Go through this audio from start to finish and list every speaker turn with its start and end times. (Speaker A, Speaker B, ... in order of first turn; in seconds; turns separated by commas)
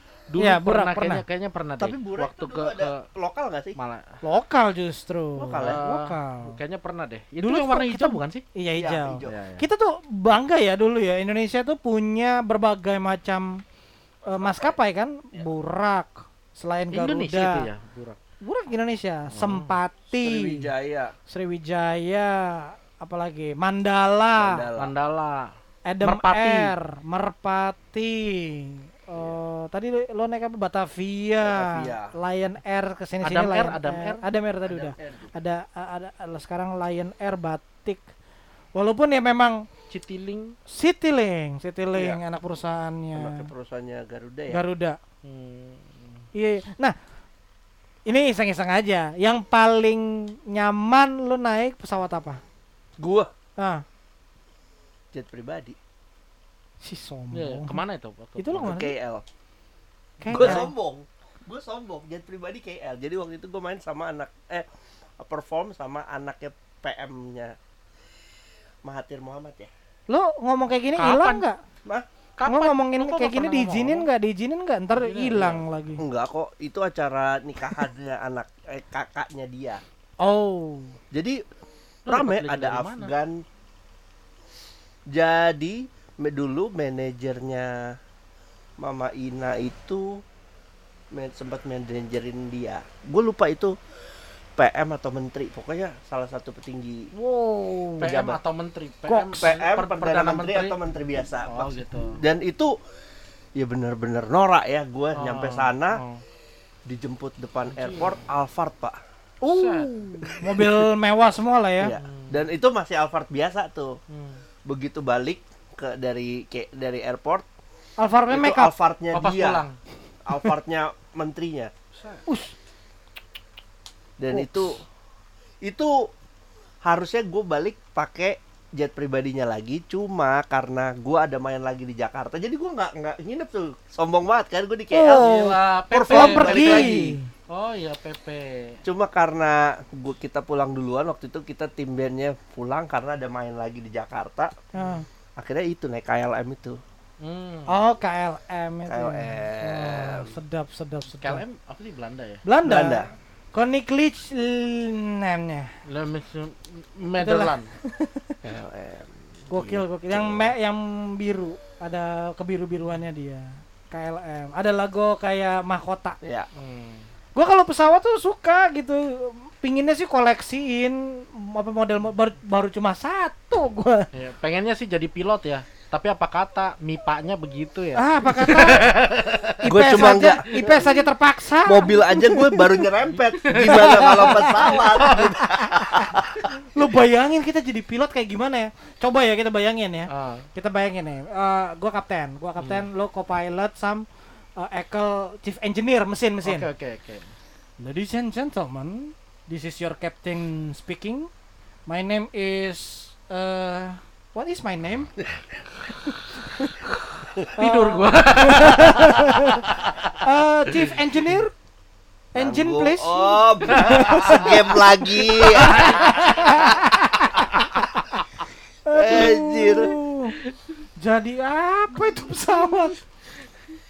Speaker A: 0.3-3.1, Speaker B: 0.4-1.2, Speaker C: 1.8-3.8, Speaker A: 3.8-4.2, Speaker B: 4.2-6.6, Speaker C: 5.4-5.8, Speaker A: 5.6-8.4, Speaker B: 7.4-13.6, Speaker C: 8.8-9.4, Speaker A: 9.3-9.7, Speaker B: 14.2-17.7, Speaker C: 14.3-14.7, Speaker A: 16.9-18.2, Speaker B: 18.4-20.7, Speaker A: 19.3-19.8, Speaker C: 20.2-21.1, Speaker B: 21.3-24.6, Speaker C: 24.4-24.9, Speaker A: 24.8-25.5, Speaker B: 25.9-38.0, Speaker A: 26.0-26.7, Speaker C: 31.4-32.1, Speaker A: 33.2-34.2, Speaker C: 34.7-35.3, Speaker B: 38.8-39.7, Speaker A: 39.9-40.5, Speaker B: 40.7-43.5, Speaker C: 42.0-42.2, Speaker C: 43.1-44.6, Speaker B: 44.5-45.0, Speaker A: 45.2-46.3, Speaker B: 46.4-47.0, Speaker B: 48.1-52.4, Speaker C: 53.0-53.3, Speaker B: 53.6-53.8, Speaker C: 55.1-55.8, Speaker B: 56.8-57.8, Speaker A: 57.3-58.8, Speaker B: 58.4-58.9, Speaker C: 58.6-59.2, Speaker B: 60.2-60.7, Speaker A: 60.3-60.6, Speaker C: 60.3-64.7, Speaker C: 65.2-67.5, Speaker C: 68.8-69.7, Speaker B: 70.1-71.6, Speaker A: 71.0-71.5, Speaker A: 72.4-74.1, Speaker B: 72.5-76.0, Speaker A: 74.9-75.7, Speaker C: 76.0-79.8, Speaker B: 80.2-81.0, Speaker C: 81.1-81.4, Speaker A: 82.1-83.1, Speaker C: 82.1-83.4, Speaker C: 85.1-88.0, Speaker C: 88.8-90.2, Speaker C: 91.1-93.8, Speaker C: 94.6-97.1, Speaker B: 97.1-98.1, Speaker C: 98.0-98.4, Speaker A: 98.0-100.8, Speaker B: 99.1-99.5, Speaker C: 99.2-102.7, Speaker A: 101.5-102.2, Speaker C: 103.6-106.0, Speaker A: 105.2-106.2, Speaker C: 106.9-109.0, Speaker A: 107.7-108.2, Speaker B: 109.4-112.0, Speaker A: 109.5-109.9, Speaker C: 111.8-114.0, Speaker A: 112.0-112.5, Speaker A: 114.1-114.4, Speaker C: 114.7-117.5, Speaker B: 118.0-118.7, Speaker C: 118.3-119.6, Speaker A: 119.1-119.8, Speaker C: 120.3-121.7, Speaker A: 121.9-122.2, Speaker B: 122.3-122.5, Speaker C: 124.2-124.8, Speaker B: 124.3-124.7, Speaker C: 125.6-126.1, Speaker C: 126.8-137.2, Speaker B: 134.9-137.3, Speaker A: 135.2-138.8, Speaker C: 138.8-144.6, Speaker B: 144.7-145.1, Speaker A: 144.8-145.0, Speaker C: 145.4-146.8, Speaker A: 147.2-147.7, Speaker B: 147.7-151.4, Speaker C: 148.9-150.3, Speaker A: 151.1-152.4, Speaker B: 152.4-155.7, Speaker C: 152.6-153.1, Speaker A: 155.9-157.7, Speaker B: 157.2-158.4, Speaker C: 158.4-160.5, Speaker B: 159.5-166.2, Speaker C: 166.2-166.5, Speaker A: 166.6-167.1, Speaker B: 167.3-174.1, Speaker A: 174.1-180.8, Speaker B: 178.0-178.9, Speaker B: 179.6-182.9, Speaker C: 179.6-180.7, Speaker C: 181.7-186.5, Speaker A: 183.2-185.3, Speaker B: 183.6-186.1, Speaker B: 186.7-196.7, Speaker A: 190.1-190.5, Speaker A: 192.6-192.9, Speaker A: 196.4-197.3, Speaker B: 197.8-201.3, Speaker B: 201.9-205.1, Speaker A: 207.6-210.2, Speaker B: 207.6-211.5, Speaker B: 212.3-218.1, Speaker C: 212.4-216.7, Speaker A: 213.8-214.5, Speaker A: 215.5-216.7, Speaker B: 218.9-220.4, Speaker C: 218.9-219.9, Speaker B: 221.0-223.0